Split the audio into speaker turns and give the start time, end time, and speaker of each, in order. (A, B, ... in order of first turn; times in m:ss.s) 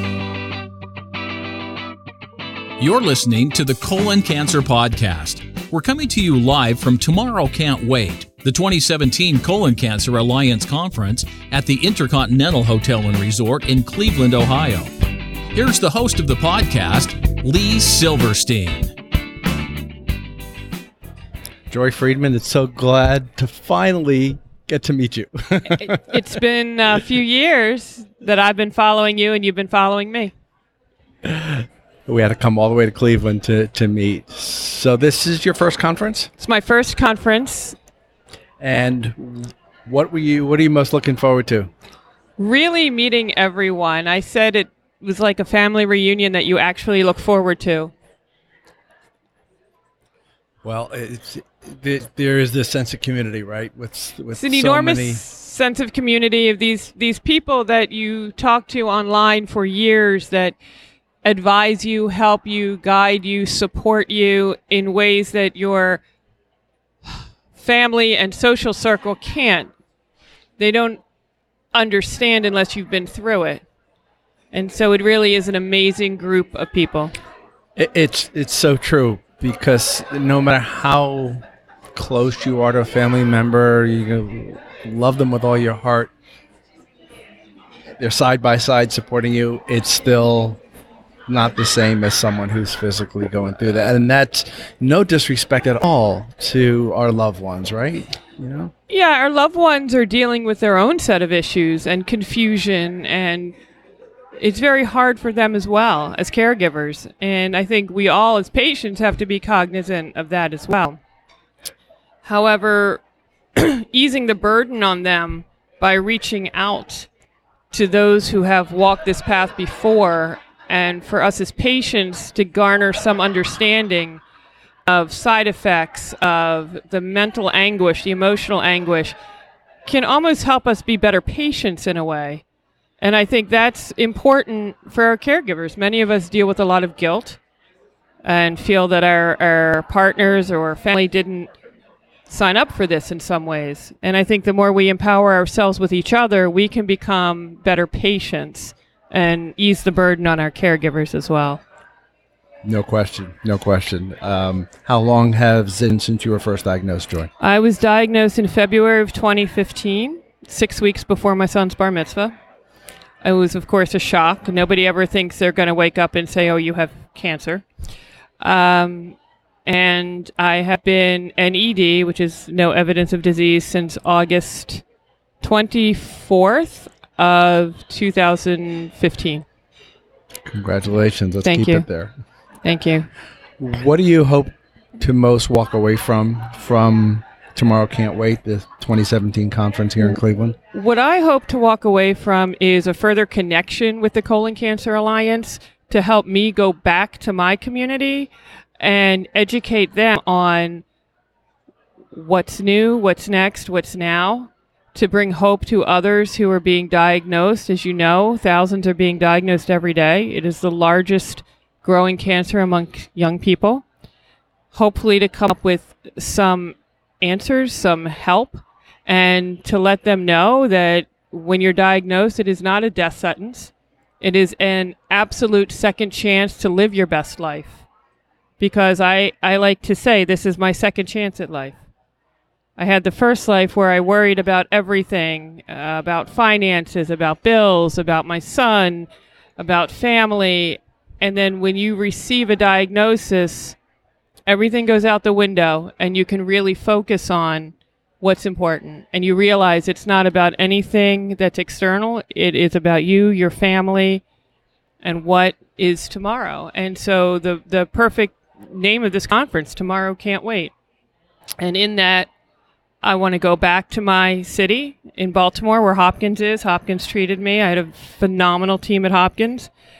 0:02.8-0:14.9 A
0:15.5-0:18.9 A
0:21.7-0:25.9 B
0:25.7-0:30.3 C
0:31.2-0:36.3 B
0:36.4-0:37.8 C
0:38.6-0:41.7 B
0:42.4-0:47.9 C
0:50.6-0:55.2 B
0:54.3-1:00.6 C
1:01.2-1:06.0 C
1:07.5-1:09.7 C
1:10.6-1:11.0 C
1:11.7-1:13.6 C
1:14.5-1:17.1 C
1:17.8-1:21.4 B
1:21.9-1:26.1 B
1:28.0-1:30.6 B
1:31.3-1:38.7 B
1:38.9-1:43.6 C
1:44.4-1:51.0 C
1:52.2-1:53.0 C
1:53.6-1:57.1 C
1:57.7-2:04.2 C
2:04.8-2:09.2 C
2:09.8-2:12.4 C
2:13.0-2:17.4 C
2:18.2-2:21.5 C
2:22.3-2:31.6 C
2:32.6-2:37.3 B
2:37.4-2:42.3 C
2:43.2-2:47.6 C
2:48.4-2:54.8 C
2:55.4-2:59.4 C
3:00.4-3:02.1 B
3:01.4-3:01.8 C
3:02.6-3:03.1 C
3:03.6-3:10.6 B
3:10.7-3:20.8 C
3:22.1-3:33.8 C
3:34.7-3:47.8 C
3:48.6-3:51.8 C
3:52.8-4:03.8 C
4:04.5-4:14.2 C
4:15.0-4:20.7 C
4:21.6-4:22.3 C
4:23.0-4:29.7 C